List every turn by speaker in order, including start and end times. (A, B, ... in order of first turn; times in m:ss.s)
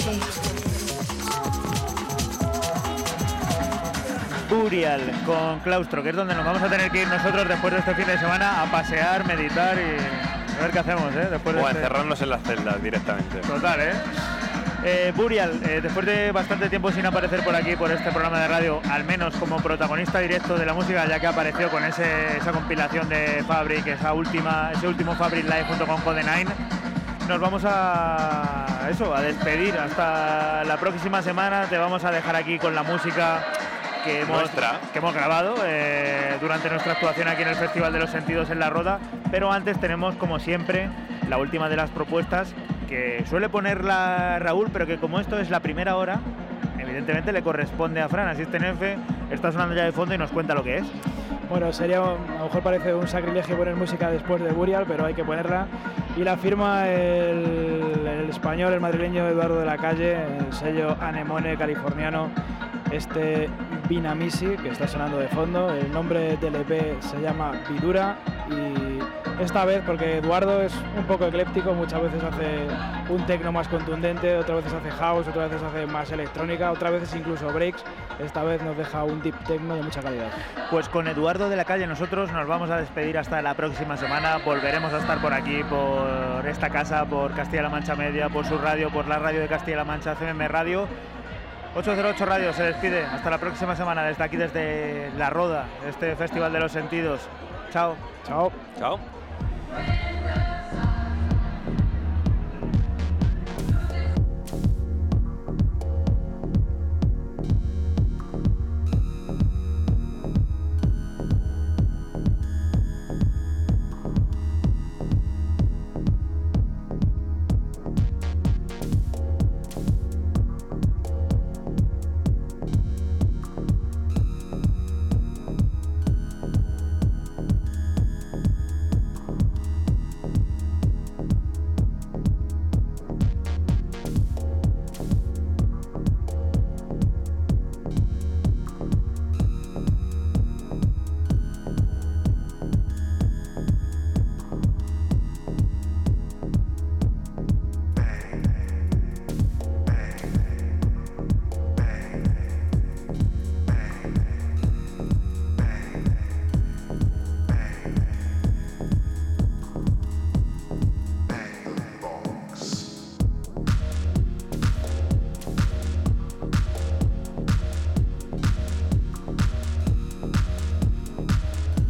0:04.5-0:11.9 A
0:11.5-0:13.5 B
0:13.4-0:14.0 A
0:14.8-0:26.6 A
0:27.2-0:33.5 A
0:34.0-0:50.9 A
0:34.2-0:34.8 B
0:51.5-1:02.3 C
1:02.9-1:20.4 C
1:20.7-1:30.9 A
1:31.7-1:38.0 A
1:38.2-1:38.6 C
1:38.8-1:39.0 B